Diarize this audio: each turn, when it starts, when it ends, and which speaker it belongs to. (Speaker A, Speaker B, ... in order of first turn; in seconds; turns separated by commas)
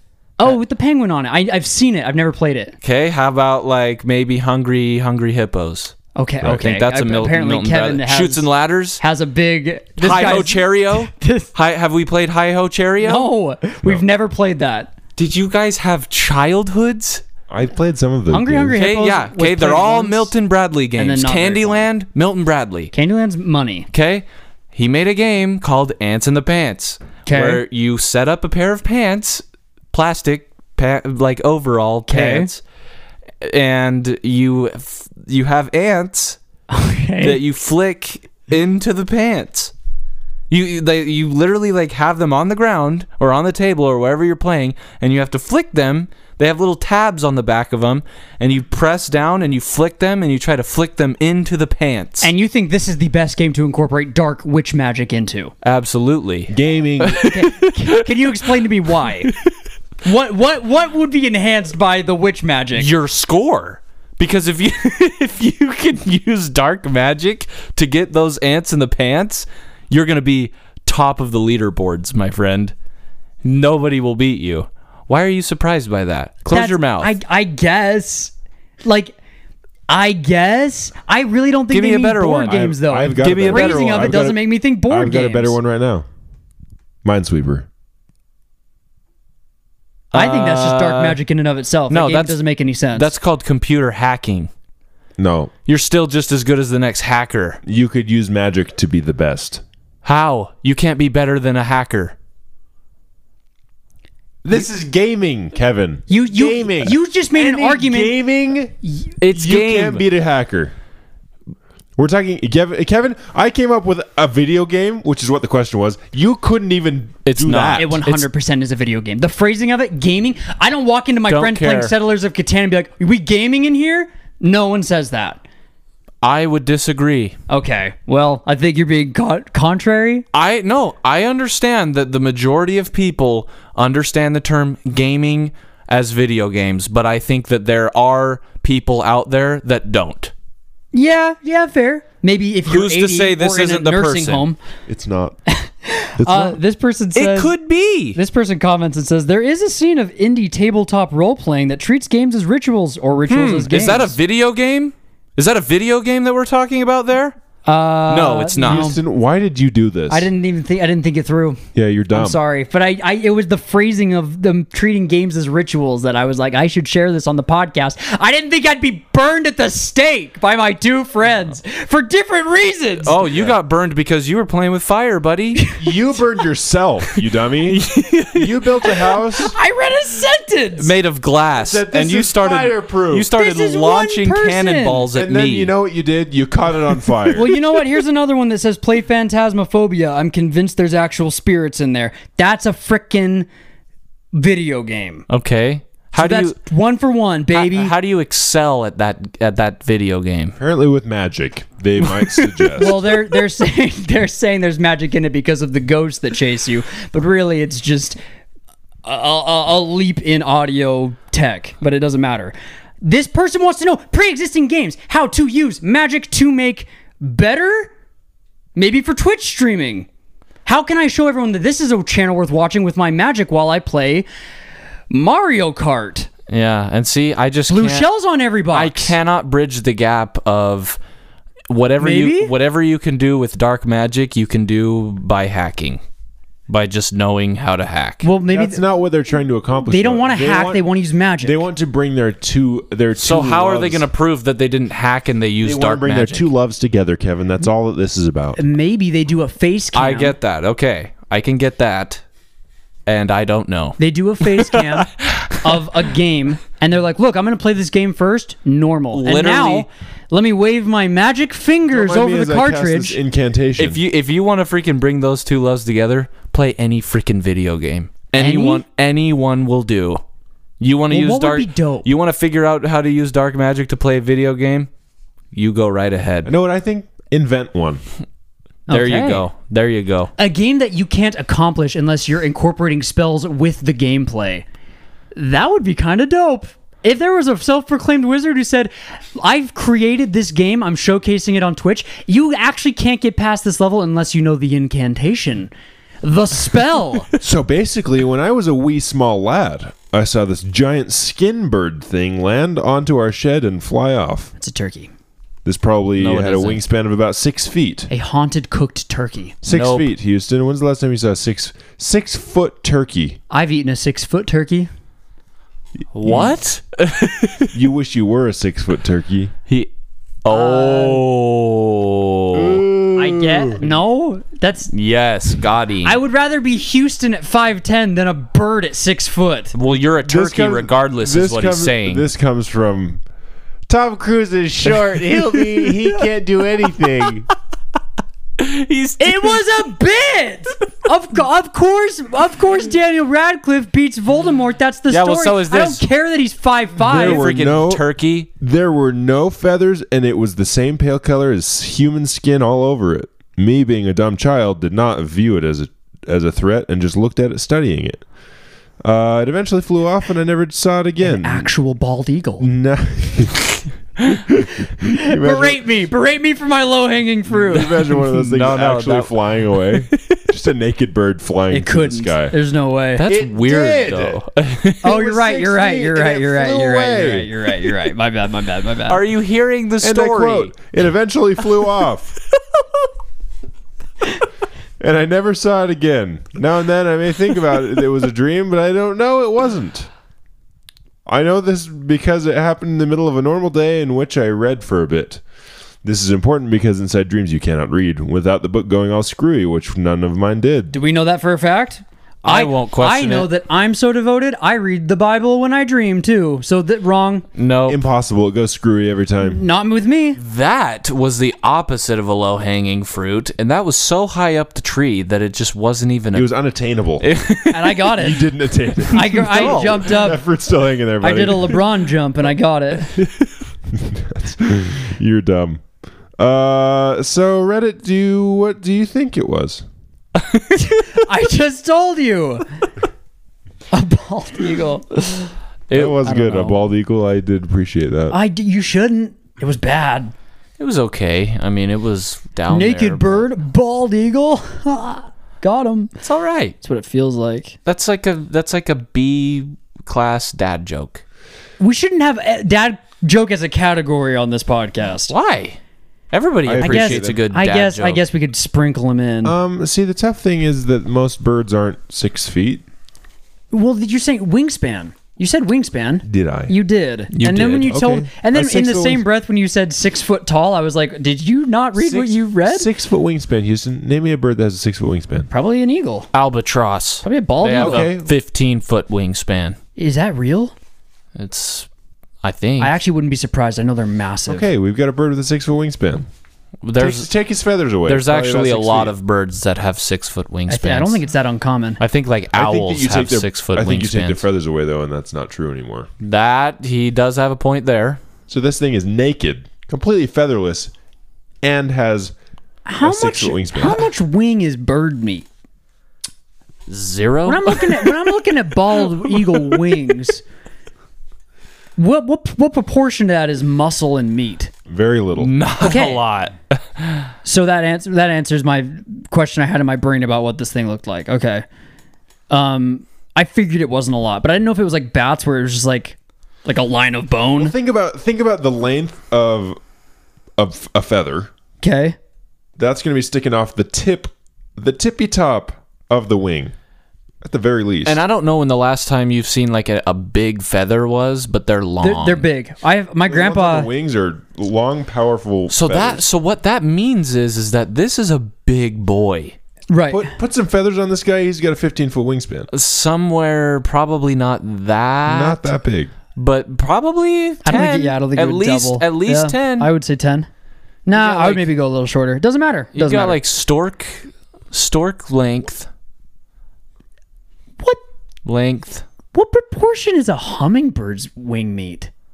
Speaker A: 0.4-2.7, Speaker B: 2.8-9.0, Speaker A: 6.2-8.5, Speaker A: 9.0-11.5, Speaker B: 10.0-13.3, Speaker A: 13.0-14.9, Speaker B: 15.2-17.2, Speaker C: 17.5-18.8, Speaker A: 18.3-20.3, Speaker B: 18.8-22.9, Speaker A: 21.0-21.9, Speaker A: 22.9-23.9, Speaker B: 23.9-32.6, Speaker A: 27.2-27.6, Speaker A: 32.1-32.5, Speaker B: 33.4-36.4, Speaker A: 36.7-37.4, Speaker B: 37.2-39.7, Speaker B: 40.5-52.3, Speaker A: 52.2-55.5, Speaker B: 55.6-58.1, Speaker C: 56.5-57.2, Speaker A: 57.2-59.3, Speaker A: 60.0-62.9, Speaker B: 62.8-72.7, Speaker B: 73.4-77.1, Speaker A: 76.5-78.3, Speaker A: 78.8-79.1, Speaker A: 79.9-85.6, Speaker B: 81.7-84.3, Speaker C: 82.5-86.0, Speaker C: 87.0-87.7, Speaker B: 90.1-91.2, Speaker A: 90.1-93.1, Speaker B: 91.9-92.4, Speaker B: 92.9-94.5, Speaker C: 95.2-95.5, Speaker B: 95.7-97.6, Speaker C: 97.6-99.6, Speaker B: 100.0-102.1, Speaker C: 104.4-110.7, Speaker A: 106.1-108.2, Speaker B: 109.2-110.0, Speaker C: 112.0-118.0, Speaker B: 117.2-118.3, Speaker A: 117.8-125.4, Speaker B: 121.3-121.9, Speaker B: 126.2-127.3, Speaker A: 127.5-130.2, Speaker B: 130.3-140.3, Speaker A: 140.9-144.6, Speaker B: 142.7-144.4, Speaker C: 144.9-145.4, Speaker A: 145.5-147.5, Speaker C: 146.2-146.6, Speaker B: 147.2-148.2, Speaker A: 148.1-154.2, Speaker B: 153.3-157.4, Speaker A: 157.6-159.0, Speaker B: 158.1-158.9, Speaker C: 158.6-160.3, Speaker A: 160.1-173.1, Speaker C: 161.7-162.4, Speaker B: 173.0-175.6, Speaker C: 173.2-173.6, Speaker C: 175.8-179.5, Speaker B: 177.7-178.7, Speaker A: 179.4-180.9, Speaker B: 180.8-185.7, Speaker C: 181.6-183.3, Speaker A: 183.3-185.1, Speaker C: 185.1-187.5, Speaker A: 187.3-193.5, Speaker A: 194.3-195.3, Speaker B: 195.3-196.6, Speaker A: 196.2-197.9, Speaker B: 197.5-200.6, Speaker C: 200.6-203.0, Speaker A: 202.8-208.2, Speaker A: 209.0-217.9, Speaker A: 218.8-220.1, Speaker A: 220.7-224.2, Speaker A: 225.1-226.3, Speaker B: 226.5-228.1, Speaker A: 227.7-229.1, Speaker B: 228.7-231.0, Speaker B: 231.7-236.0, Speaker A: 232.0-232.5, Speaker B: 236.7-238.2, Speaker A: 238.2-238.8, Speaker C: 238.5-240.8, Speaker A: 239.9-241.6, Speaker C: 241.4-244.1, Speaker B: 243.2-246.5, Speaker C: 245.6-248.6, Speaker A: 248.6-250.3, Speaker B: 249.9-252.2, Speaker B: 253.1-255.8, Speaker A: 254.0-263.2, Speaker B: 259.1-259.9, Speaker C: 261.9-264.0, Speaker B: 263.8-270.2, Speaker A: 268.3-268.8, Speaker B: 270.8-274.9, Speaker A: 271.1-272.1, Speaker B: 275.5-276.5, Speaker C: 276.4-278.0, Speaker A: 278.9-279.4, Speaker B: 278.9-280.3, Speaker A: 280.4-284.6, Speaker A: 285.3-295.7, Speaker A: 296.2-297.3, Speaker C: 297.4-304.5, Speaker A: 304.6-305.1, Speaker C: 305.6-308.1, Speaker B: 306.2-306.8, Speaker A: 308.1-309.6, Speaker C: 309.6-313.4, Speaker B: 309.7-310.1, Speaker A: 313.5-314.9, Speaker B: 316.1-317.7, Speaker C: 316.2-316.5, Speaker C: 317.7-319.5, Speaker B: 320.4-322.8, Speaker A: 320.5-321.2, Speaker C: 322.5-323.9, Speaker A: 323.1-324.9, Speaker B: 324.9-326.2, Speaker A: 326.0-329.7, Speaker B: 329.7-332.2, Speaker C: 330.2-333.2, Speaker C: 333.9-337.5, Speaker B: 335.6-336.1, Speaker B: 338.6-339.6, Speaker A: 339.2-347.5, Speaker B: 345.1-346.0, Speaker C: 347.0-348.0, Speaker B: 347.1-348.5, Speaker C: 348.6-358.2, Speaker C: 359.0-361.7, Speaker A: 361.2-362.7, Speaker C: 362.6-365.8, Speaker A: 365.0-368.0, Speaker C: 367.5-372.5, Speaker B: 368.4-369.3, Speaker A: 371.7-373.2, Speaker B: 373.2-375.0, Speaker C: 373.3-374.4, Speaker C: 375.0-377.5, Speaker A: 375.0-379.2, Speaker B: 379.1-380.8, Speaker C: 380.0-382.3, Speaker C: 385.0-390.1, Speaker C: 391.2-395.4, Speaker C: 396.0-400.9, Speaker A: 400.9-407.4, Speaker B: 402.4-403.5, Speaker B: 407.6-408.0, Speaker C: 407.9-409.6, Speaker A: 409.4-410.4, Speaker B: 410.4-416.5, Speaker C: 416.3-417.2, Speaker B: 417.2-418.1, Speaker A: 417.7-418.4, Speaker C: 418.1-421.8, Speaker A: 419.1-420.4, Speaker B: 419.3-420.2, Speaker A: 421.2-423.2, Speaker C: 423.9-425.8, Speaker C: 426.4-429.8, Speaker B: 430.4-431.2, Speaker A: 431.1-432.6, Speaker A: 433.9-435.2, Speaker B: 435.9-436.6, Speaker C: 435.9-438.4, Speaker A: 436.2-436.8, Speaker A: 438.3-440.3, Speaker B: 440.8-443.5, Speaker A: 442.7-446.1, Speaker B: 446.2-446.7, Speaker A: 446.8-447.8, Speaker B: 447.9-451.2, Speaker A: 451.8-455.3, Speaker B: 455.3-455.8, Speaker B: 456.3-458.2, Speaker C: 456.6-457.4, Speaker A: 456.8-459.6, Speaker C: 459.4-462.8, Speaker A: 463.7-472.9, Speaker C: 466.2-466.7, Speaker B: 467.4-467.9, Speaker C: 467.4-469.2, Speaker C: 471.9-475.5, Speaker A: 475.5-476.3, Speaker B: 476.3-479.8, Speaker A: 477.2-478.1, Speaker C: 477.7-478.3, Speaker A: 479.9-480.7, Speaker B: 481.4-481.9, Speaker B: 482.4-483.0, Speaker A: 482.8-484.7, Speaker C: 484.5-486.2, Speaker B: 486.8-487.3, Speaker C: 487.0-489.1, Speaker B: 488.1-491.2, Speaker A: 490.7-492.0, Speaker B: 492.0-494.4, Speaker C: 492.5-496.1, Speaker B: 496.2-498.2, Speaker C: 498.5-500.9, Speaker C: 501.6-502.3, Speaker A: 502.9-505.4, Speaker C: 503.0-504.1, Speaker B: 506.9-508.2, Speaker A: 507.4-510.4, Speaker B: 509.3-509.6, Speaker A: 512.0-514.7, Speaker C: 514.9-515.5, Speaker B: 515.4-517.3, Speaker A: 515.8-516.2, Speaker A: 517.4-521.6, Speaker A: 522.5-527.7, Speaker C: 527.6-529.8, Speaker C: 530.6-531.5, Speaker A: 531.8-532.2, Speaker C: 532.8-536.7, Speaker C: 537.4-538.2, Speaker B: 538.0-542.5, Speaker A: 542.0-543.9, Speaker C: 543.3-546.2, Speaker B: 545.7-549.5, Speaker A: 549.9-550.3, Speaker C: 550.1-552.7, Speaker B: 552.7-555.8, Speaker C: 555.2-556.1, Speaker B: 556.3-559.9, Speaker A: 557.6-560.5, Speaker A: 561.0-563.4, Speaker B: 561.1-561.7, Speaker B: 562.9-565.9, Speaker B: 568.4-569.0, Speaker A: 569.3-572.1